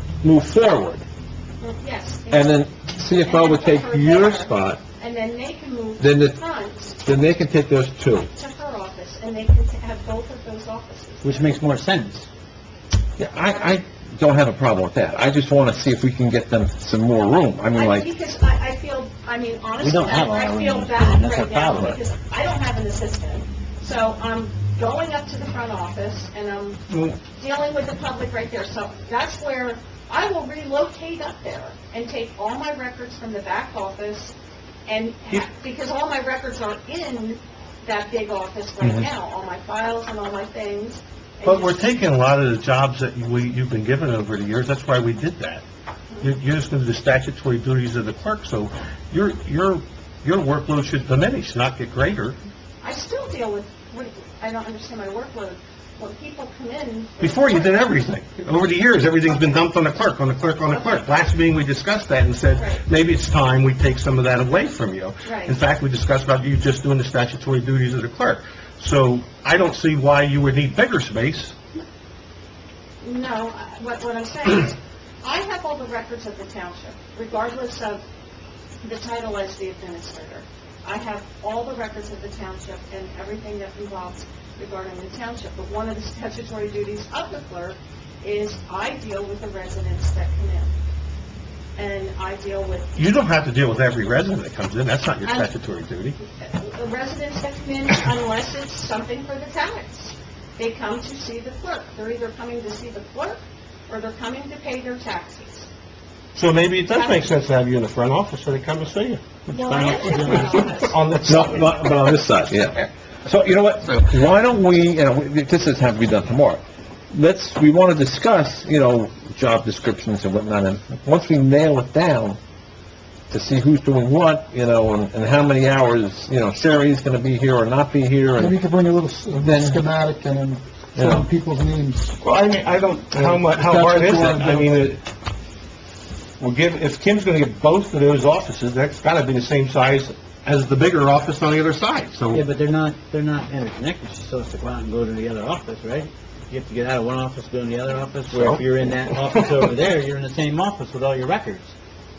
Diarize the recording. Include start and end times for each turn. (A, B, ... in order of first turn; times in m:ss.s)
0:00.2-0:01.0 A
0:01.6-0:07.0 B
0:02.3-0:04.8 A
0:06.0-0:06.4 A
0:07.0-0:08.3 A
0:08.3-0:11.5 B
0:11.2-0:12.3 C
0:13.2-0:18.1 A
0:17.7-0:34.3 B
0:19.8-0:22.0 C
0:26.9-0:27.2 D
0:34.9-0:41.9 B
0:38.8-0:39.1 A
0:41.4-0:45.6 D
0:46.2-0:52.4 D
0:52.8-0:58.1 B
0:57.2-1:11.5 D
0:59.3-0:59.6 B
1:00.7-1:01.1 B
1:02.5-1:02.8 B
1:05.2-1:05.6 B
1:13.0-1:18.0 B
1:18.8-1:30.7 B
1:31.8-1:32.9 B
1:33.0-1:36.2 D
1:35.2-1:35.5 B
1:36.2-1:45.7 B
1:46.3-1:49.2 D
1:46.9-1:47.3 B
1:49.5-1:50.9 C
1:49.5-1:51.0 B
1:50.8-1:52.3 D
1:51.2-2:02.4 A
2:03.3-2:08.5 A
2:08.4-2:12.2 E
2:09.4-2:09.8 A
2:11.0-2:11.2 A
2:12.2-2:15.0 D
2:13.2-2:14.7 E
2:16.4-2:22.4 D
2:22.3-2:31.7 C
2:28.3-2:28.6 D